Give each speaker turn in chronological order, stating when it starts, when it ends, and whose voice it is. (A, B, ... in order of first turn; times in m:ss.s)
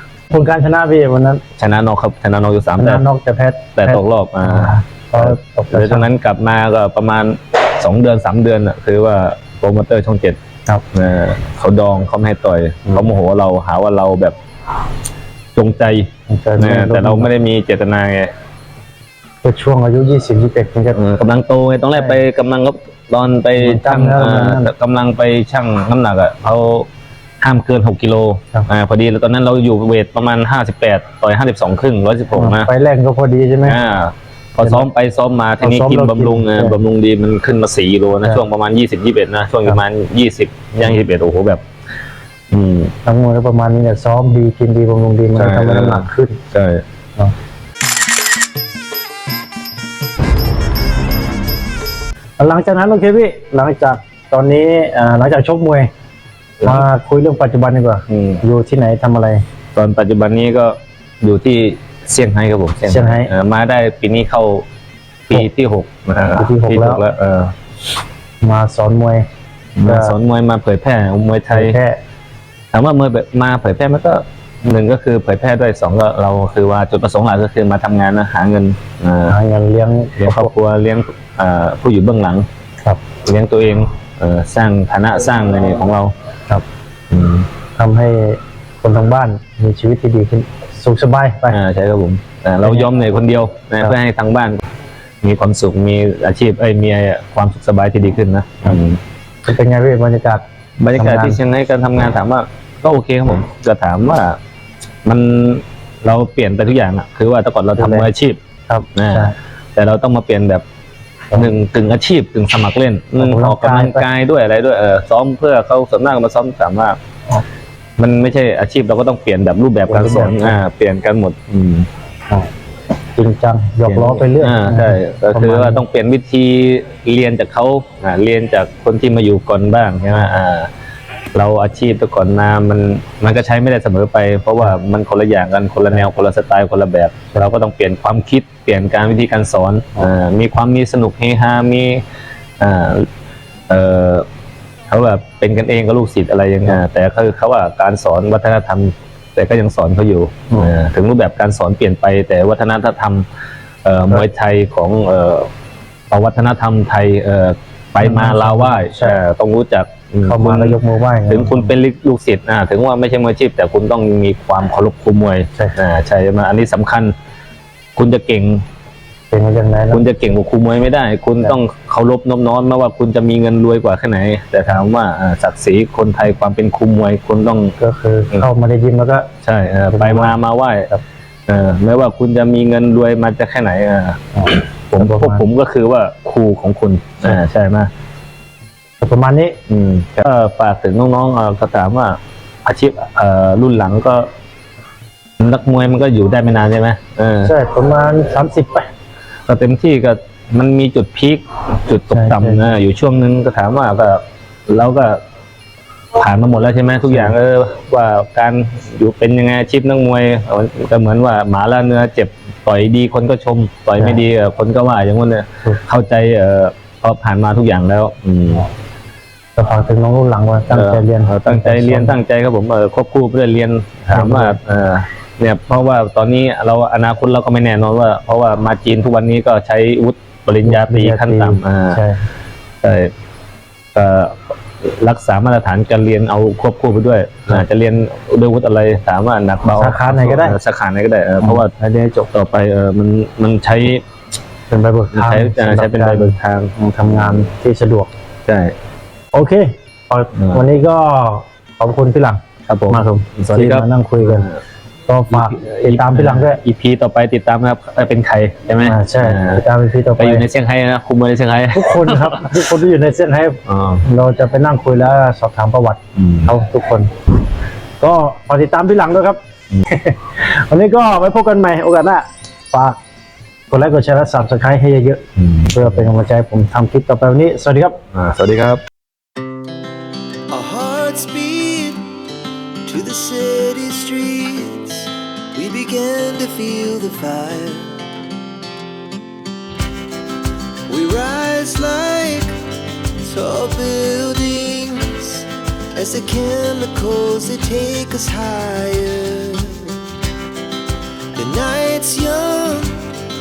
0:00.3-0:01.4 A
0:01.6-0:03.0 B
0:02.8-0:06.1 A
0:03.8-0:10.4 B
0:10.9-0:14.4 B
0:15.5-0:18.3 B
0:16.3-0:17.3 A
0:19.4-0:21.0 A
0:20.9-0:26.9 B
0:23.6-0:24.7 A
0:27.4-0:32.7 B
0:32.3-0:33.8 A
0:33.6-0:41.6 B
0:35.6-0:36.8 A
0:42.5-0:42.9 B
0:43.0-0:46.4 A
0:45.4-0:46.8 B
0:52.4-0:55.9 A
0:56.6-0:56.8 B
0:56.6-0:59.4 A
0:58.1-0:58.4 B
0:59.8-1:04.6 B
1:02.9-1:03.3 A
1:05.3-1:07.5 B
1:06.4-1:07.0 A
1:08.4-1:09.2 A
1:09.8-1:11.8 B
1:09.8-1:10.2 A
1:11.5-1:12.0 A
1:12.7-1:19.4 B
1:19.3-1:20.5 A
1:20.2-1:22.5 B
1:23.2-1:26.1 B
1:27.1-1:27.5 B
1:27.8-1:31.6 A
1:31.5-1:34.6 B
1:35.2-1:39.0 B
1:39.4-1:40.4 A
1:40.8-1:44.4 B
1:40.9-1:41.4 A
1:45.0-1:48.4 B
1:47.8-1:48.1 A
1:48.7-1:49.3 A
1:48.9-1:50.6 B
1:51.3-1:57.0 B
1:53.2-1:54.1 A
1:58.0-2:01.9 B
1:59.9-2:00.6 A
2:03.2-2:05.8 A
2:03.9-2:10.7 B
2:11.3-2:22.0 B
2:22.6-2:23.1 B
2:23.7-2:24.2 B
2:24.9-2:33.2 B
2:33.8-2:35.5 B
2:36.1-2:40.8 B
2:38.0-2:39.2 A
2:40.2-2:41.7 A
2:41.3-2:47.1 B
2:48.0-2:48.6 B
2:49.3-2:50.0 A
2:49.9-2:57.8 B
2:57.8-2:59.3 A
2:59.4-3:00.9 B
2:59.9-3:00.4 A
3:01.5-3:07.9 B
3:04.4-3:05.4 A
3:09.0-3:09.6 A
3:09.7-3:14.3 B
3:15.4-3:17.5 B
3:17.4-3:18.9 A
3:19.5-3:25.2 B
3:22.1-3:22.7 A
3:26.2-3:38.7 B
3:27.1-3:27.4 A
3:39.6-3:42.2 A
3:40.7-3:52.0 B
3:44.1-3:44.6 A
3:50.7-3:52.2 A
3:52.8-3:53.1 B
3:53.9-4:04.0 B
3:59.6-4:00.6 A
4:01.4-4:02.3 A
4:04.7-4:08.1 A
4:05.1-4:07.5 B
4:08.5-4:08.7 B
4:09.3-4:14.5 A
4:10.4-4:10.6 B
4:12.7-4:14.6 B
4:15.1-4:16.6 A
4:15.3-4:19.6 B
4:18.8-4:20.4 A
4:20.2-4:22.7 B
4:21.7-4:27.1 A
4:23.7-4:24.0 B
4:26.2-4:26.5 B
4:28.0-4:33.0 A
4:33.7-4:38.0 A
4:35.4-4:36.1 B
4:38.1-4:38.8 B
4:40.5-4:42.2 C
4:42.9-4:48.0 C
4:50.9-4:52.6 C
4:53.2-5:00.0 C
5:01.4-5:03.1 C